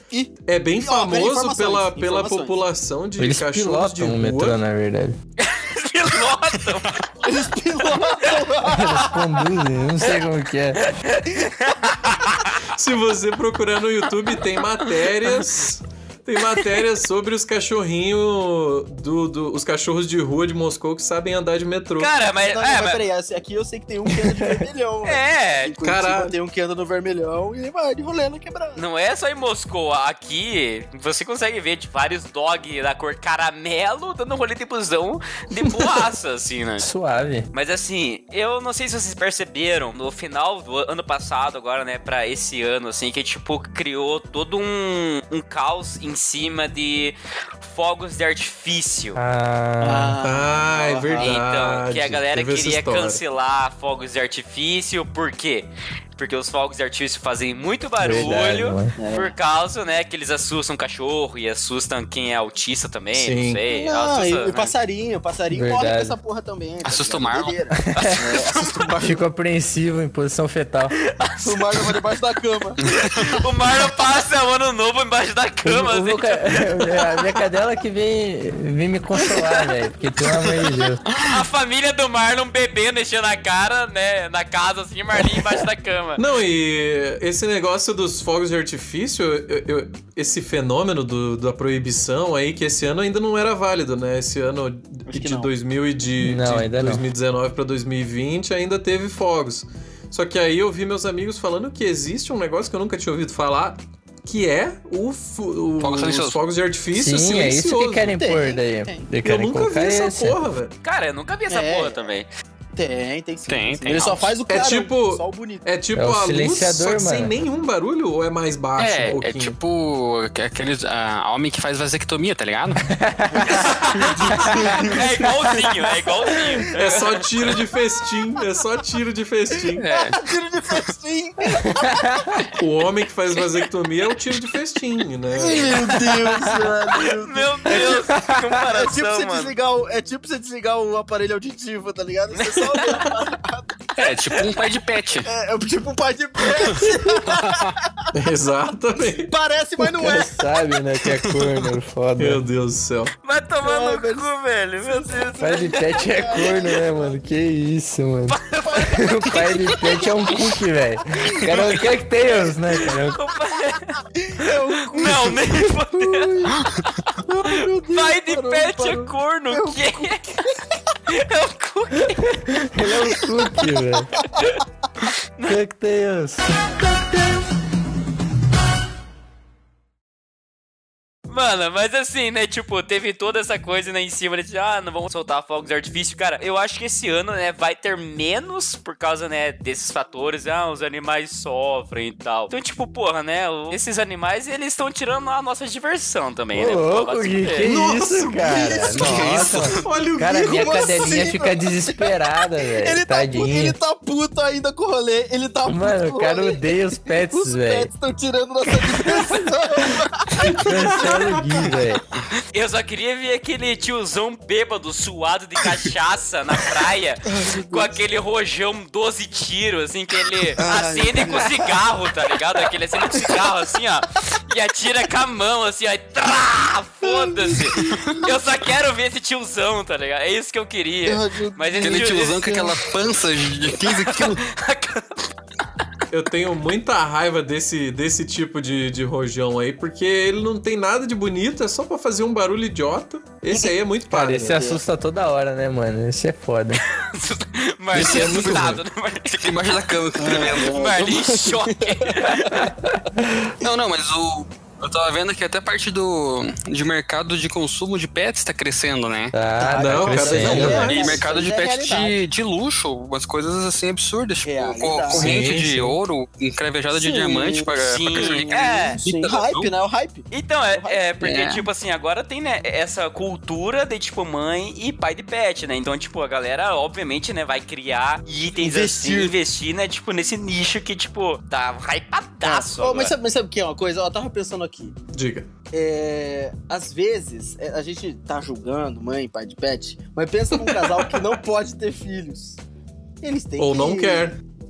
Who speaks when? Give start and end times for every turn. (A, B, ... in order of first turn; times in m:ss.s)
0:00.1-0:02.6 A
0:00.4-0:04.6 B
0:03.2-0:05.2 C
0:05.4-0:07.1 D
0:07.2-0:09.4 A
0:07.9-0:08.4 D
0:08.7-0:10.9 C
0:10.8-0:12.6 D
0:12.7-0:22.1 B
0:22.0-0:23.0 D
0:22.4-0:28.8 A
0:25.0-0:25.8 D
0:25.8-0:26.3 B
0:28.8-0:36.9 D
0:35.6-0:35.9 B
0:36.8-0:37.5 C
0:37.5-0:49.2 D
0:49.2-0:50.2 C
0:49.8-0:51.4 A
0:50.2-0:53.2 B
0:51.1-1:04.7 D
0:58.0-0:58.9 C
0:59.0-0:59.3 A
1:03.1-1:03.6 B
1:03.7-1:09.2 A
1:05.5-1:06.2 C
1:06.8-1:07.6 E
1:07.8-1:08.2 C
1:07.9-1:09.0 D
1:09.0-1:11.0 C
1:11.0-1:12.0 D
1:11.4-1:12.8 A
1:12.8-1:13.4 E
1:12.9-1:17.2 D
1:15.6-1:21.0 C
1:19.4-1:19.6 D
1:21.1-1:21.4 E
1:21.2-1:26.2 D
1:26.2-1:48.2 B
1:35.1-1:35.5 A
1:36.2-1:37.0 C
1:45.8-1:46.4 E
1:46.9-1:50.4 C
1:48.1-1:49.1 A
1:49.2-1:50.7 B
1:50.8-1:52.3 D
1:51.5-1:52.1 A
1:52.8-1:55.7 A
1:53.5-1:54.4 E
1:54.5-1:59.6 B
1:56.0-1:57.3 C
1:58.8-2:02.9 E
2:02.9-2:03.6 C
2:03.4-2:06.4 A
2:03.5-2:04.1 D
2:04.4-2:04.7 C
2:04.8-2:07.3 D
2:06.7-2:09.8 B
2:09.8-2:10.2 E
2:09.8-2:12.5 A
2:11.8-2:12.3 C
2:12.6-2:15.9 B
2:15.3-2:24.1 A
2:16.9-2:19.5 D
2:18.0-2:18.4 C
2:22.3-2:23.0 D
2:24.0-2:25.3 E
2:25.2-2:27.9 A
2:26.6-2:27.7 E
2:28.1-2:29.3 B
2:29.0-2:30.4 A
2:29.8-2:32.4 C
2:31.2-2:31.6 E
2:32.2-2:33.1 B
2:33.2-2:36.7 D
2:33.6-2:34.3 A
2:34.8-2:37.2 A
2:35.4-2:43.2 C
2:38.3-2:40.2 D
2:38.6-2:40.1 A
2:41.5-2:41.8 D
2:42.9-2:46.4 D
2:44.2-2:46.7 A
2:47.1-2:50.4 D
2:47.2-2:50.6 A
2:51.1-2:52.4 D
2:52.0-2:54.1 C
2:53.1-2:54.3 A
2:55.5-2:56.9 C
3:01.3-3:17.7 D
3:16.5-3:23.8 C
3:17.6-3:21.0 B
3:18.8-3:19.6 A
3:20.3-3:31.1 A
3:25.7-3:27.9 C
3:30.4-3:31.8 B
3:30.6-3:32.0 C
3:32.5-3:52.6 D
3:37.3-3:38.0 A
3:40.6-3:41.9 A
3:42.6-3:43.5 A
3:47.0-3:48.0 A
3:47.8-3:48.2 E
3:51.0-3:52.8 A
3:51.8-3:54.4 E
3:53.8-3:55.3 D
3:56.1-4:04.7 B
4:04.1-4:06.8 C
4:04.5-4:04.8 A
4:06.9-4:09.5 D
4:07.9-4:08.8 B
4:08.0-4:08.8 E
4:09.3-4:10.8 E
4:10.2-4:12.6 A
4:10.5-4:12.7 D
4:12.9-4:13.5 C
4:13.6-4:19.4 E
4:19.3-4:20.9 C
4:19.6-4:22.2 A
4:19.7-4:21.2 B
4:20.1-4:29.7 E
4:24.4-4:25.5 A
4:25.1-4:26.0 B
4:26.9-4:31.2 A
4:27.8-4:29.0 D
4:30.3-4:43.1 D
4:31.2-4:31.7 E
4:38.6-4:39.4 A
4:42.4-4:45.0 A
4:45.1-4:45.5 B
4:45.7-4:52.6 A
4:53.2-4:54.4 A
4:53.6-4:54.4 B